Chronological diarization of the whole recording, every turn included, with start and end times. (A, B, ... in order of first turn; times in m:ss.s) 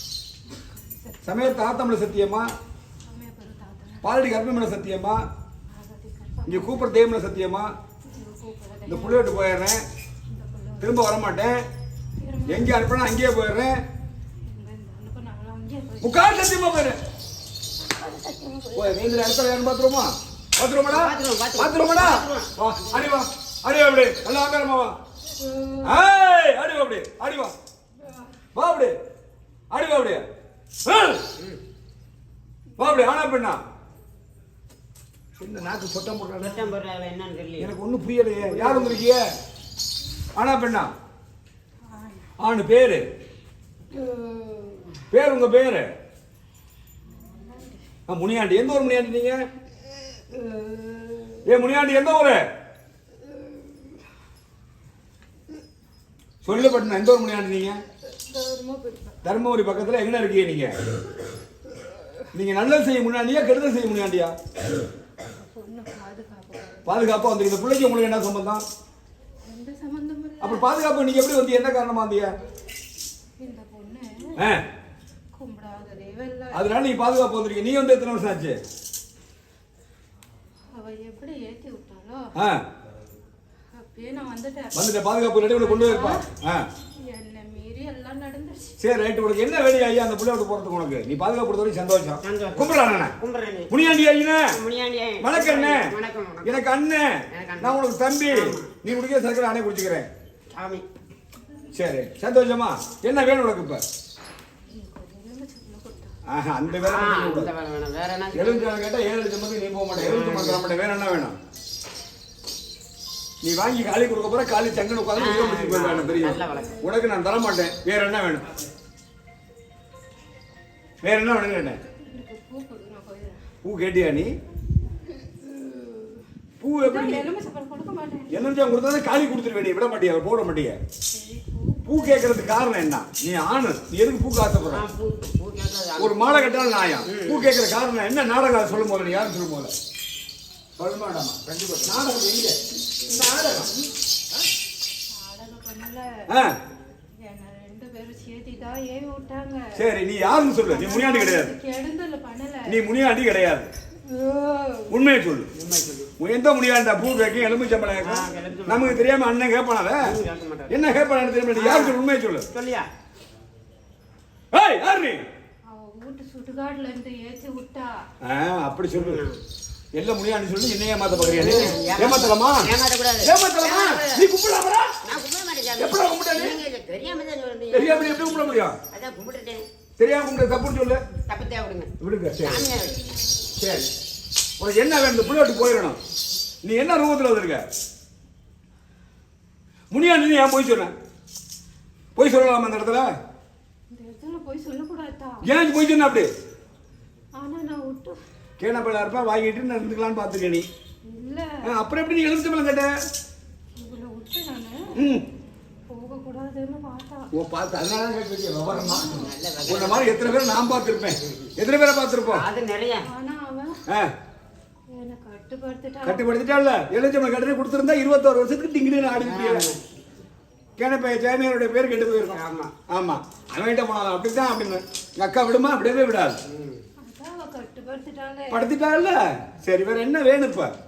0:00.5-0:01.6 A
0:01.2-0:02.5 B
0:03.0-0:04.1 A
0:04.0-0:05.2 B
0:05.7-0:07.0 A
0:06.5-0:07.7 B
0:08.1-0:09.3 A
0:08.9-0:09.8 B
0:10.3-0:11.0 A
0:10.8-0:11.6 B
0:12.2-0:12.8 A
0:12.5-0:13.8 B
0:14.4-0:16.5 A
0:16.0-0:17.0 B
0:17.8-0:19.0 A
0:18.7-0:25.0 B
0:20.9-0:23.1 C
0:25.4-0:26.0 A
0:25.8-0:27.5 B
0:28.6-0:29.0 B
0:29.7-0:30.2 B
0:30.8-0:31.2 B
0:32.8-0:33.6 B
0:35.4-0:36.7 B
0:36.4-0:37.7 C
0:37.6-0:39.3 B
0:38.5-0:39.0 C
0:40.4-0:40.9 B
0:41.9-0:42.3 A
0:42.4-0:43.0 B
0:44.0-0:44.8 A
0:45.1-0:45.9 B
0:47.2-0:47.8 A
0:48.1-0:49.4 B
0:50.3-0:51.4 A
0:51.4-0:52.4 B
0:56.4-0:57.8 B
0:58.2-0:59.2 A
0:59.2-1:00.8 B
1:02.3-1:04.3 B
1:05.2-1:06.9 A
1:06.9-1:08.6 B
1:09.4-1:10.8 A
1:10.4-1:12.3 B
1:13.4-1:14.4 A
1:14.4-1:14.6 B
1:15.3-1:16.7 A
1:16.5-1:18.6 B
1:20.7-1:22.3 A
1:22.4-1:22.6 B
1:23.7-1:24.8 A
1:24.7-1:26.7 B
1:25.5-1:26.3 A
1:27.0-1:28.8 A
1:28.8-1:33.2 B
1:32.2-1:33.8 C
1:33.7-1:34.6 B
1:34.5-1:36.7 C
1:35.2-1:40.1 B
1:37.3-1:38.7 C
1:40.5-1:40.8 C
1:41.8-1:43.8 B
1:44.7-1:46.1 A
1:46.3-1:47.5 B
1:46.8-1:48.7 C
1:48.3-1:51.4 B
1:50.0-1:50.6 C
1:53.4-1:58.5 B
1:55.2-1:56.9 C
2:01.0-2:01.8 B
2:01.9-2:03.4 A
2:03.6-2:04.3 B
2:05.1-2:06.2 A
2:06.6-2:07.3 B
2:06.8-2:08.5 A
2:08.3-2:10.8 B
2:11.1-2:12.5 A
2:11.8-2:14.9 B
2:14.7-2:17.5 C
2:16.0-2:19.7 B
2:20.8-2:22.6 B
2:21.5-2:22.0 C
2:23.0-2:23.7 C
2:25.1-2:26.3 A
2:26.3-2:26.6 B
2:27.2-2:29.8 A
2:29.8-2:31.5 B
2:30.6-2:32.8 A
2:32.7-2:33.7 B
2:34.1-2:34.9 A
2:34.9-2:35.5 B
2:35.6-2:36.1 C
2:36.2-2:40.2 B
2:38.0-2:39.1 C
2:40.0-2:40.8 C
2:40.7-2:42.5 B
2:41.5-2:42.9 C
2:44.5-2:45.2 B
2:45.7-2:48.0 A
2:48.2-2:49.2 B
2:49.0-2:49.4 C
2:50.0-2:55.0 B
2:51.4-2:52.0 A
2:51.4-2:54.2 C
2:55.0-2:59.7 C
2:55.8-2:56.6 B
2:57.7-2:58.8 B
3:00.0-3:01.0 B
3:01.3-3:03.0 C
3:02.0-3:02.7 B
3:03.6-3:03.9 B
3:04.6-3:06.0 B
3:06.6-3:07.7 B
3:09.9-3:10.9 B
3:12.2-3:13.1 B
3:13.9-3:15.5 A
3:15.4-3:16.3 B
3:17.4-3:18.2 A
3:18.6-3:20.7 B
3:21.0-3:21.6 A
3:21.6-3:22.9 B
3:23.8-3:25.2 A
3:25.0-3:25.2 B
3:25.9-3:27.3 A
3:27.3-3:32.4 B
3:28.7-3:29.3 A
3:28.9-3:30.4 C
3:32.3-3:33.1 C
3:33.0-3:33.8 A
3:33.9-3:34.1 B
3:34.9-3:36.4 A
3:36.0-3:39.7 B
3:39.2-3:39.8 C
3:40.8-3:46.4 B
3:42.3-3:42.8 C
3:46.5-3:46.8 C
3:47.0-3:48.7 A
3:48.5-3:50.7 B